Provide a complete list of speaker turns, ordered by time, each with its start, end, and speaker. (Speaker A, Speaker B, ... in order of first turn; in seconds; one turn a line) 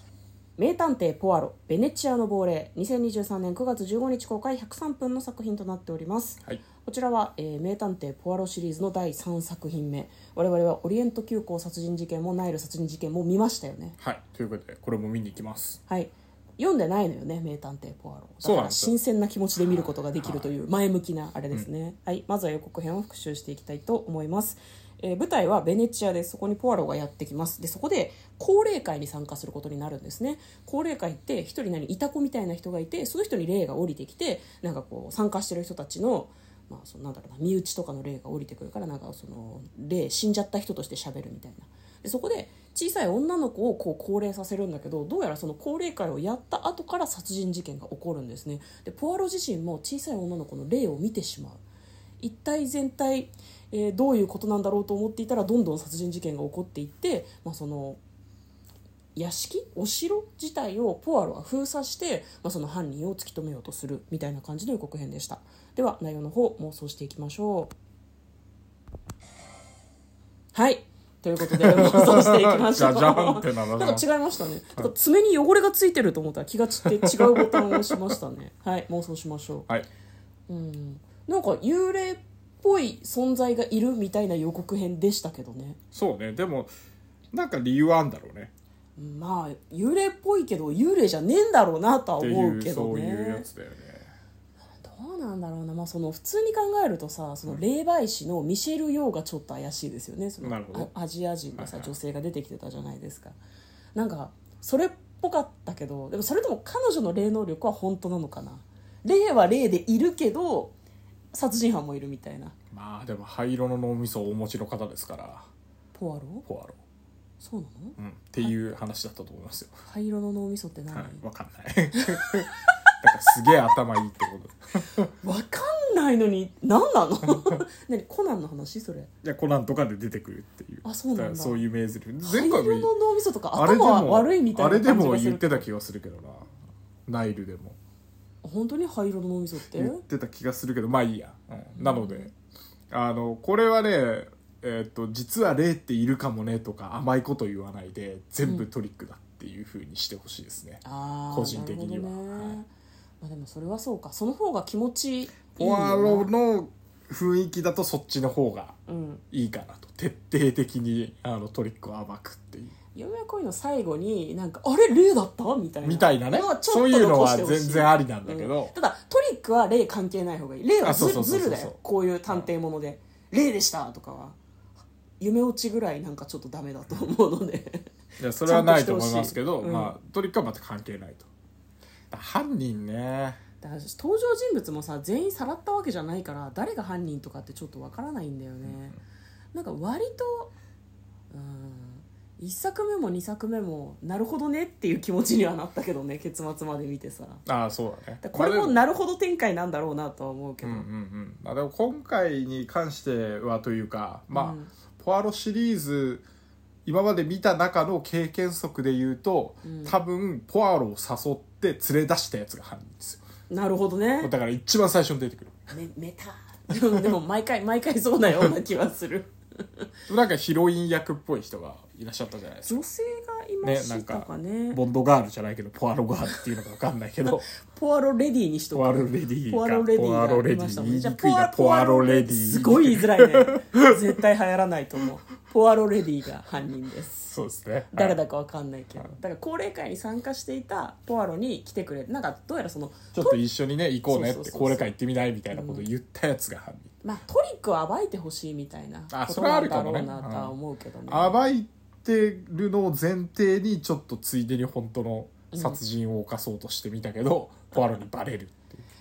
Speaker A: 0.6-14.0
Speaker B: 14.0-15.8
Speaker A: 15.9-51.6
Speaker B: 18.4-18.9
Speaker B: 19.6-20.5
Speaker A: 52.2-58.0
Speaker A: 59.1-67.7
Speaker A: 70.5-79.7
Speaker B: 71.5-74.1
Speaker B: 76.8-78.1
Speaker A: 80.5-85.8
Speaker B: 85.9-86.7
Speaker B: 87.3-88.5
Speaker A: 89.0-93.5
Speaker B: 92.2-94.1
Speaker A: 94.8-103.4
Speaker B: 100.4-100.9
Speaker B: 101.5-101.9
Speaker A: 104.0-110.8
Speaker A: 111.3-112.6
Speaker B: 112.7-115.5
Speaker A: 115.9-116.5
Speaker B: 116.5-116.8
Speaker A: 117.4-118.6
Speaker B: 118.0-119.8
Speaker A: 119.8-121.2
Speaker B: 120.9-125.1
Speaker A: 122.0-122.3
Speaker A: 125.2-129.1
Speaker B: 129.2-132.9
Speaker A: 130.8-131.6
Speaker A: 132.2-135.7
Speaker B: 133.5-136.5
Speaker B: 137.1-137.8
Speaker A: 138.4-140.0
Speaker B: 139.7-142.3
Speaker A: 141.8-142.3
Speaker B: 142.9-152.6
Speaker A: 150.8-152.7
Speaker A: 153.2-156.3
Speaker B: 155.6-158.8
Speaker A: 158.9-159.2
Speaker B: 159.3-162.7
Speaker A: 162.9-174.4
Speaker B: 165.8-168.7
Speaker B: 170.8-171.8
Speaker A: 175.2-177.9
Speaker B: 178.2-181.3
Speaker A: 178.4-179.9
Speaker B: 182.1-183.4
Speaker A: 183.6-189.0
Speaker B: 188.6-189.0
Speaker A: 189.5-190.5
Speaker A: 191.3-197.4
Speaker B: 197.5-198.8
Speaker A: 198.2-200.9
Speaker B: 200.6-206.3
Speaker A: 204.3-204.7
Speaker B: 206.8-213.2
Speaker A: 209.6-209.9
Speaker A: 213.5-214.3
Speaker B: 214.2-215.7
Speaker A: 215.7-219.8
Speaker B: 220.1-222.8
Speaker A: 222.6-224.8
Speaker B: 223.6-227.5
Speaker A: 227.7-237.3
Speaker B: 228.7-233.9
Speaker B: 237.2-238.2
Speaker A: 237.9-243.4
Speaker B: 243.1-246.9
Speaker A: 244.1-244.9
Speaker A: 245.5-245.9
Speaker A: 247.0-251.4
Speaker B: 249.1-250.6
Speaker B: 251.1-258.8
Speaker A: 255.5-255.8